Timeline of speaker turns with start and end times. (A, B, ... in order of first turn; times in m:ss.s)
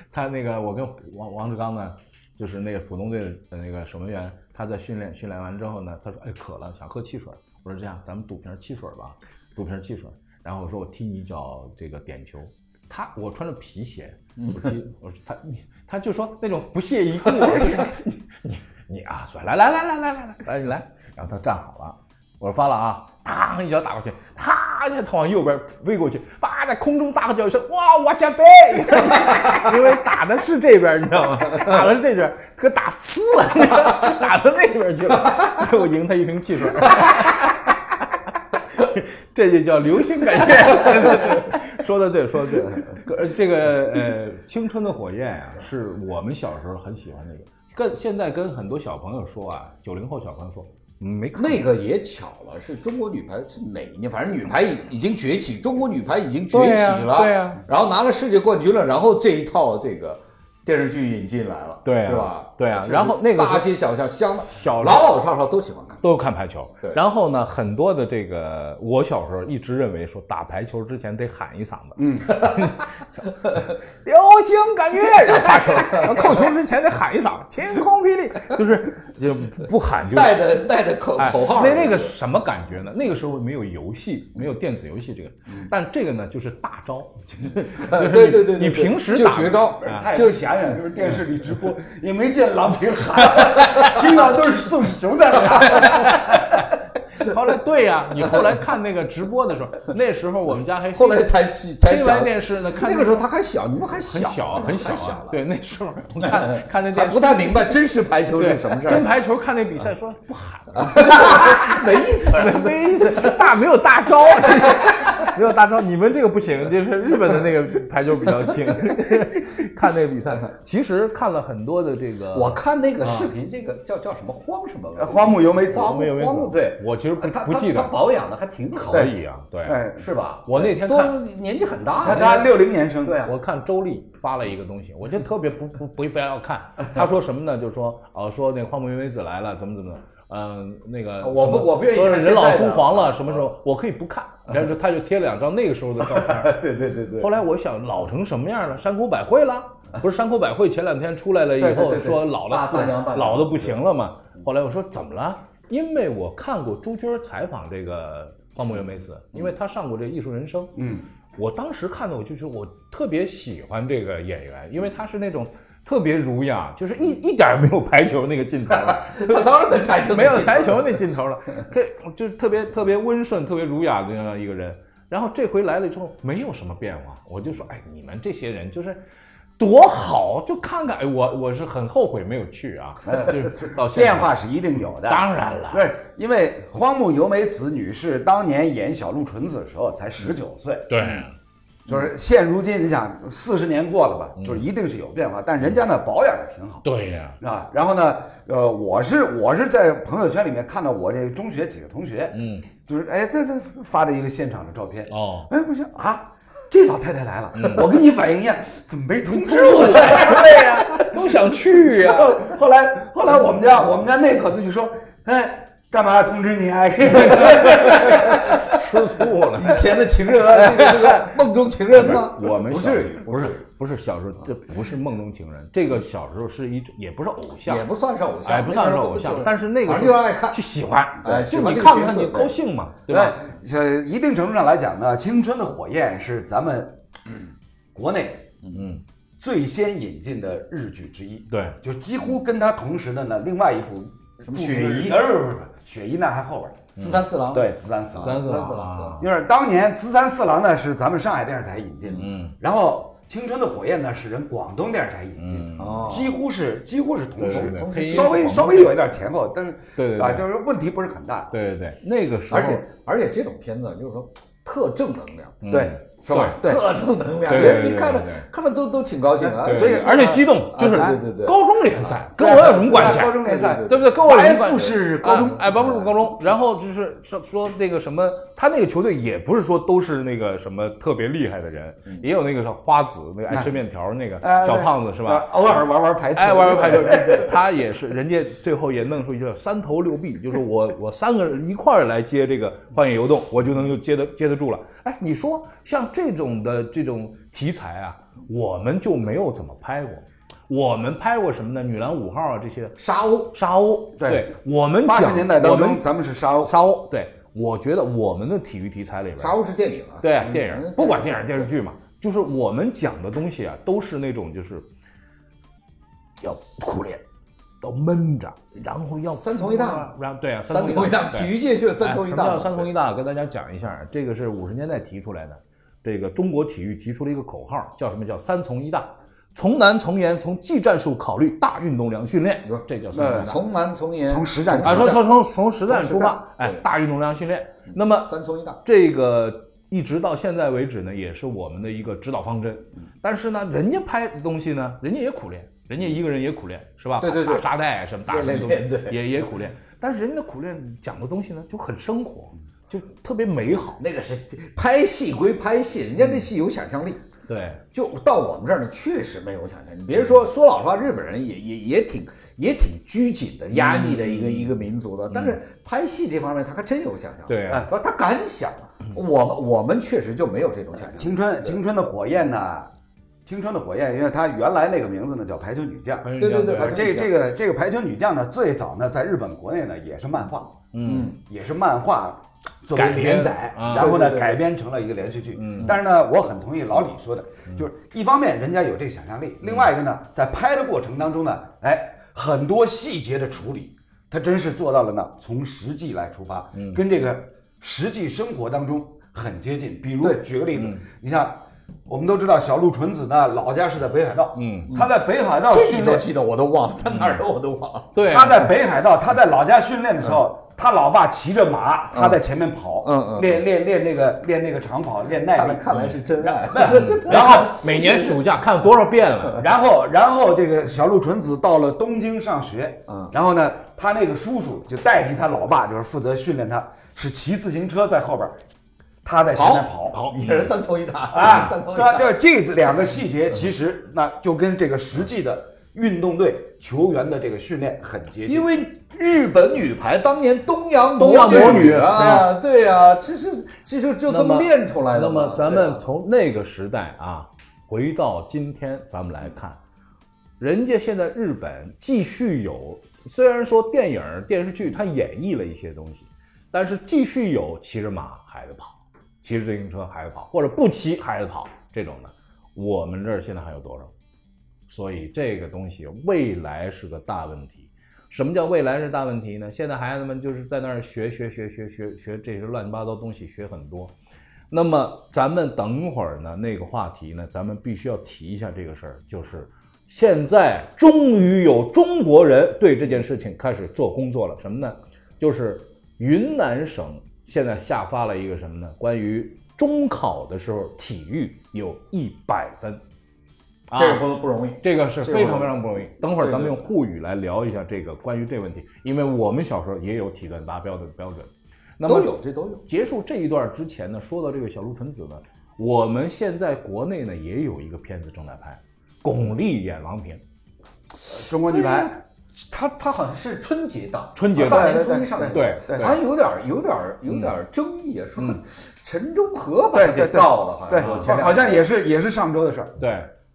0:00.1-0:51.6 A
0:14.4-0:14.7 B
0:51.3-1:06.0 B
0:56.5-0:57.6 A
1:01.8-1:03.7 A
1:04.5-1:05.1 A
1:06.0-1:20.5 A
1:12.0-1:12.4 C
1:15.2-1:16.5 B
1:20.1-1:22.1 B
1:21.2-1:30.1 A
1:27.7-1:30.8 B
1:29.8-1:36.4 C
1:33.5-1:34.0 A
1:35.4-1:43.2 A
1:40.9-1:45.4 B
1:44.0-1:47.8 A
1:46.2-1:49.1 B
1:48.4-2:03.3 A
1:50.7-1:53.4 B
1:54.6-1:55.1 B
2:02.3-2:09.1 B
2:05.0-2:05.9 C
2:05.7-2:07.9 A
2:08.8-2:09.8 A
2:09.6-2:10.0 C
2:09.9-2:13.3 B
2:10.4-2:11.2 A
2:12.0-2:13.2 C
2:13.2-2:26.6 A
2:21.2-2:23.4 B
2:26.0-2:27.3 B
2:27.2-2:40.7 A
2:31.6-2:33.8 B
2:40.8-2:41.0 C
2:41.4-2:59.0 A
2:48.7-2:51.0 B
2:59.6-3:04.3 A
3:03.0-3:11.2 C
3:05.0-3:05.9 A
3:10.9-3:11.3 A
3:11.8-3:16.8 C
3:14.4-3:14.6 A
3:16.8-3:17.4 A
3:17.4-3:38.7 C
3:22.3-3:22.6 A
3:25.1-3:25.5 A
3:27.5-3:27.9 A
3:29.4-3:32.4 A
3:37.5-3:39.8 A
3:37.8-3:38.6 B
3:39.5-3:43.6 B
3:40.5-3:41.4 A
3:41.9-3:47.8 A
3:47.6-3:50.6 B
3:48.4-3:53.4 A
3:51.2-3:52.5 B
3:53.1-3:57.0 C
3:57.9-3:58.5 C
3:58.7-3:59.0 A
3:59.4-4:06.9 C
4:01.5-4:01.8 A
4:04.4-4:05.2 B
4:07.0-4:07.3 A
4:07.0-4:09.2 B
4:07.5-4:08.4 C
4:08.2-4:09.3 A
4:09.2-4:21.5 C
4:12.2-4:12.5 A
4:15.4-4:16.2 A
4:15.8-4:16.3 B
4:17.4-4:19.0 A
4:17.4-4:18.6 B
4:20.0-4:20.4 A
4:21.5-4:22.8 A
4:22.5-4:25.6 B
4:25.6-4:26.6 A
4:25.7-4:26.0 C
4:26.2-4:32.2 B
4:26.6-4:26.9 C
4:27.4-4:28.4 A
4:27.5-4:27.8 C
4:29.4-4:31.2 C
4:29.6-4:45.8 A
4:32.4-4:35.6 C
4:32.9-4:36.1 B
4:44.4-4:47.5 C
4:46.3-5:03.0 A
5:03.0-5:03.5 B
5:03.5-5:06.0 A
5:04.2-5:04.5 C
5:05.0-5:06.7 C
5:06.6-5:09.6 A
5:09.4-5:11.7 B
5:10.2-5:14.9 A
5:16.4-5:17.2 A
5:17.8-5:33.6 A
5:19.3-5:20.1 B
5:20.7-5:22.9 B
5:32.7-5:35.3 B
5:33.1-5:33.5 C
5:34.3-5:35.2 C
5:34.8-5:38.3 A
5:35.9-5:36.8 B
5:37.9-5:38.8 B
5:38.8-5:54.0 A
5:47.2-5:47.7 B
5:48.3-5:49.2 B
5:54.0-5:57.2 B
5:57.5-5:57.8 A
5:57.9-6:11.8 B
6:03.7-6:04.8 A
6:05.3-6:05.6 A
6:07.5-6:07.9 A
6:11.1-6:12.9 C
6:13.4-6:20.8 C
6:16.2-6:17.0 A
6:16.4-6:17.3 B
6:20.9-6:21.3 A
6:21.0-6:21.4 B
6:21.4-6:46.3 C
6:22.9-6:24.2 A
6:24.0-6:24.6 B
6:25.5-6:26.0 A
6:36.7-6:37.0 A
6:40.7-6:41.0 A
6:44.5-6:44.9 A
6:45.7-6:48.2 B
6:47.1-6:47.4 A
6:48.1-6:48.7 A
6:48.2-6:57.8 C
6:53.0-6:53.6 B
6:55.5-6:58.4 B
6:56.8-6:59.6 A
6:59.6-7:08.6 C
7:09.2-7:10.5 C
7:09.5-7:12.3 B
7:11.3-7:18.7 C
7:18.4-7:26.0 B
7:21.2-7:22.5 A
7:21.4-7:22.4 C
7:24.3-7:29.8 A
7:30.6-7:44.1 A
7:44.9-7:54.1 A
7:54.7-8:13.0 A
8:13.9-8:14.2 A
8:14.0-8:15.8 B
8:14.8-8:22.3 A
8:16.4-8:16.8 B
8:22.0-8:22.8 B
8:22.8-8:30.4 A
8:31.2-8:32.2 C
8:31.6-8:41.9 B
8:34.4-8:36.2 A
8:34.5-8:36.1 C
8:37.3-8:37.5 A
8:39.9-8:42.9 C
8:41.0-8:41.5 A
8:43.0-8:43.3 A